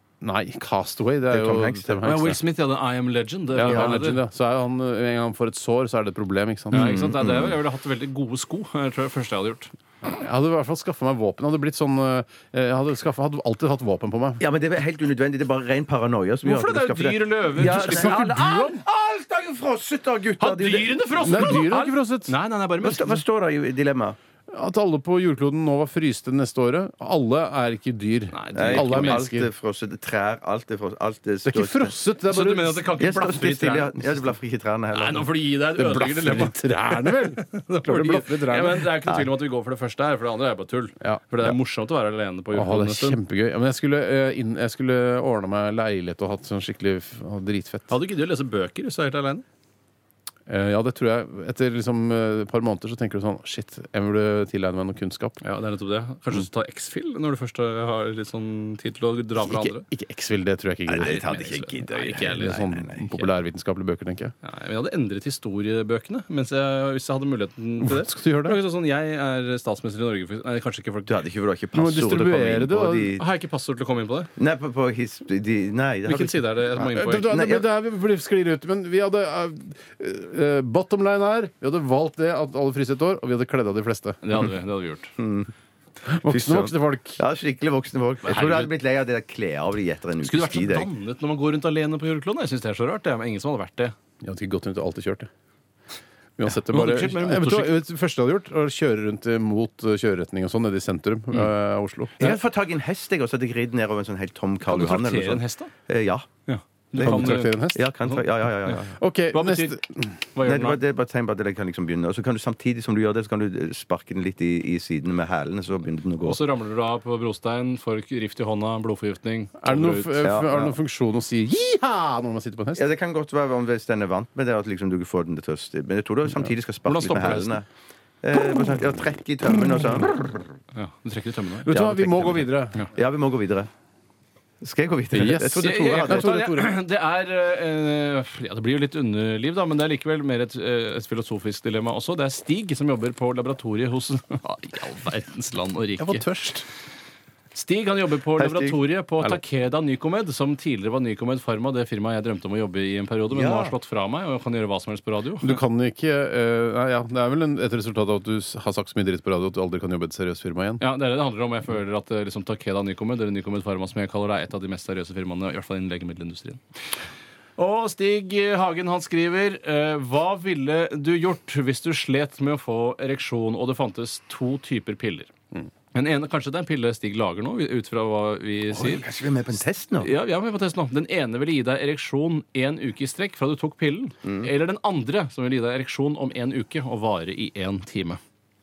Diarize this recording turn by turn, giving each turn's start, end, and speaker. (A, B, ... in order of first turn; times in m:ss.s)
0:00.2-0:02.4 A
0:01.3-0:02.2 B
0:02.0-0:04.2 C
0:03.5-0:07.1 A
0:03.7-0:04.0 B
0:06.7-0:09.7 C
0:06.7-0:07.6 B
0:10.1-0:14.4 A
0:14.4-0:21.5 B
0:16.4-0:18.3 C
0:17.6-0:18.8 A
0:20.4-0:23.2 C
0:21.2-0:22.3 A
0:22.8-0:24.2 B
0:24.5-0:29.5 A
0:28.3-0:29.3 C
0:28.5-0:31.9 B
0:31.4-0:32.8 A
0:32.3-0:34.0 C
0:33.0-0:35.3 B
0:34.9-0:43.2 C
0:35.8-0:38.9 A
0:41.0-0:41.6 A
0:42.5-0:47.9 A
0:47.9-0:49.4 C
0:50.5-0:55.4 A
0:55.4-0:59.9 C
0:59.4-1:01.5 A
1:00.9-1:03.1 B
1:01.0-1:03.2 C
1:02.2-1:04.3 A
1:04.4-1:11.2 C
1:07.8-1:08.6 A
1:11.1-1:13.2 B
1:11.7-1:13.2 A
1:13.2-1:14.3 C
1:14.4-1:17.6 B
1:16.1-1:17.3 C
1:16.8-1:24.3 A
1:24.2-1:25.1 C
1:25.2-1:25.5 B
1:26.1-1:27.2 A
1:26.3-1:30.9 B
1:28.2-1:28.7 C
1:30.2-1:33.9 C
1:34.2-1:35.3 A
1:36.4-1:42.2 A
1:36.5-1:37.8 C
1:42.2-1:46.3 B
1:44.6-1:45.7 C
1:46.5-1:49.8 C
1:46.9-1:48.9 B
1:47.0-1:47.9 A
1:49.0-1:50.2 A
1:50.4-1:50.8 C
1:50.4-1:56.4 B
1:56.2-2:00.3 C
1:59.6-2:02.9 A
2:00.2-2:00.7 B
2:02.8-2:07.6 B
2:06.3-2:07.5 A
2:06.9-2:07.5 C
2:08.2-2:10.4 B
2:10.7-2:11.7 C
2:11.6-2:12.8 A
2:11.7-2:13.7 B
2:14.6-2:16.3 B
2:15.1-2:16.7 A
2:15.5-2:26.2 C
2:26.0-2:26.6 A
2:27.5-2:35.6 C
2:28.4-2:28.8 B
2:33.3-2:33.7 B
2:35.4-2:40.8 A
2:40.8-2:46.6 C
2:47.6-2:55.3 C
2:55.9-2:59.1 C
2:58.7-3:00.1 B
3:00.0-3:08.2 C